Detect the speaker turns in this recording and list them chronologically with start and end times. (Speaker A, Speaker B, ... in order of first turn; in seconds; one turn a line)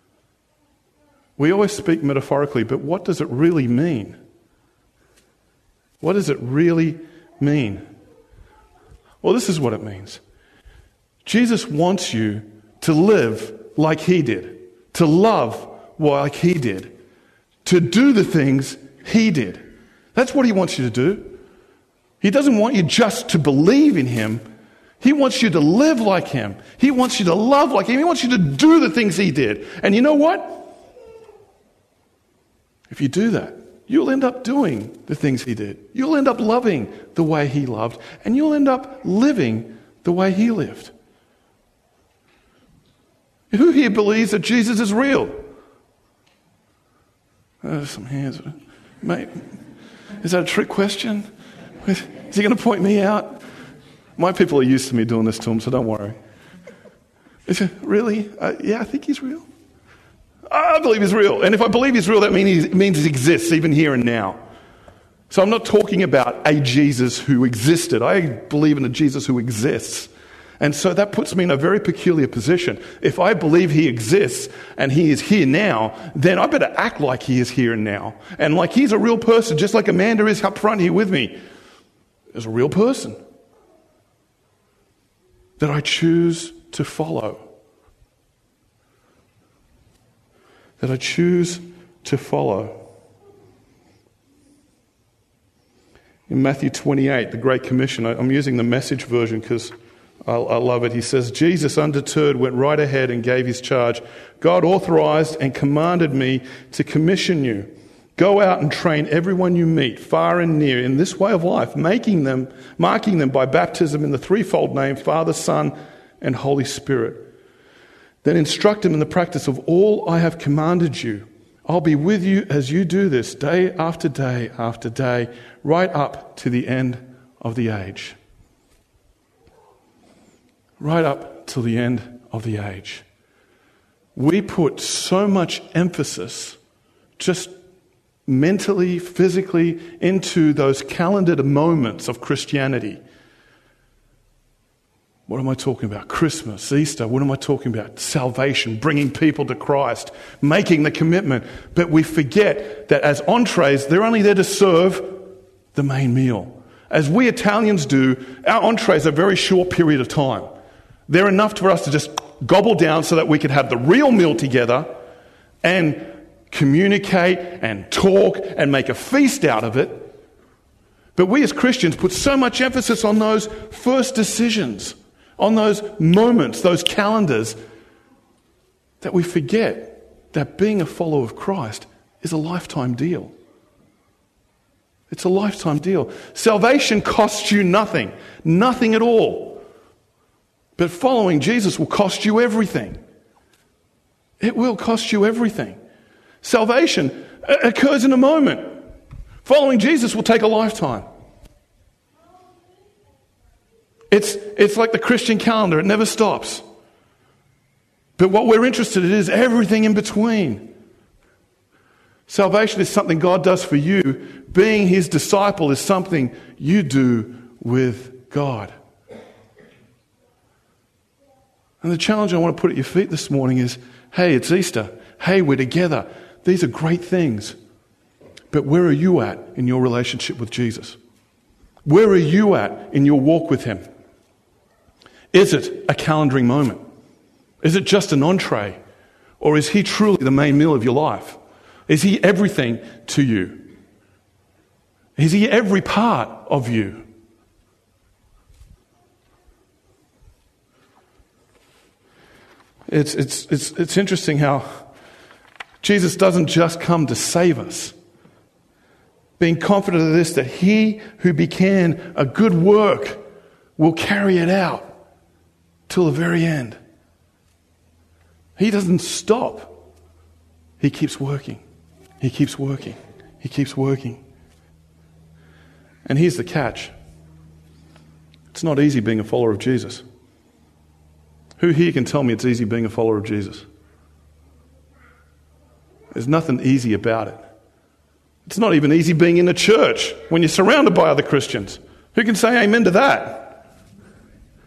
Speaker A: 1.4-4.2
Speaker A: 6.0-7.8
Speaker A: 9.2-10.2
Speaker A: 11.2-16.9
Speaker A: 17.6-19.6
Speaker A: 20.1-21.4
Speaker A: 22.2-24.4
Speaker A: 25.0-30.7
Speaker A: 32.9-40.9
Speaker A: 43.5-45.4
Speaker A: 47.6-49.5
Speaker A: 50.2-51.3
Speaker A: 51.9-53.4
Speaker A: 54.2-56.1
Speaker A: 57.5-59.5
Speaker A: 60.5-64.4
Speaker A: 65.3-81.4
Speaker A: 82.3-83.2
Speaker A: 85.6-87.5
Speaker A: 90.8-92.8
Speaker A: 96.3-99.7
Speaker A: 100.3-117.3
Speaker A: 118.2-128.2
Speaker A: 130.8-133.0
Speaker A: 134.2-136.6
Speaker A: 137.2-137.5
Speaker A: 138.3-143.0
Speaker A: 145.3-160.5
Speaker A: 161.1-164.9
Speaker A: 165.6-170.1
Speaker A: 171.2-177.6
Speaker A: 179.0-183.3
Speaker A: 185.1-189.6
Speaker A: 190.8-193.0
Speaker A: 194.4-195.8
Speaker A: 196.4-198.7
Speaker A: 199.4-201.1
Speaker A: 204.1-206.6
Speaker A: 208.2-210.7
Speaker A: 212.3-218.7
Speaker A: 221.8-227.6
Speaker A: 228.5-231.0
Speaker A: 231.9-233.8
Speaker A: 235.3-236.8
Speaker A: 237.6-238.8
Speaker A: 239.4-243.7
Speaker A: 245.2-247.1
Speaker A: 252.9-254.8
Speaker A: 255.8-257.9
Speaker A: 259.4-263.2
Speaker A: 263.8-264.9
Speaker A: 265.9-266.8
Speaker A: 268.6-269.7
Speaker A: 270.8-271.6
Speaker A: 272.2-274.2
Speaker A: 276.1-276.9
Speaker A: 278.5-280.0
Speaker A: 281.6-283.7
Speaker A: 286.1-287.4
Speaker A: 288.5-293.6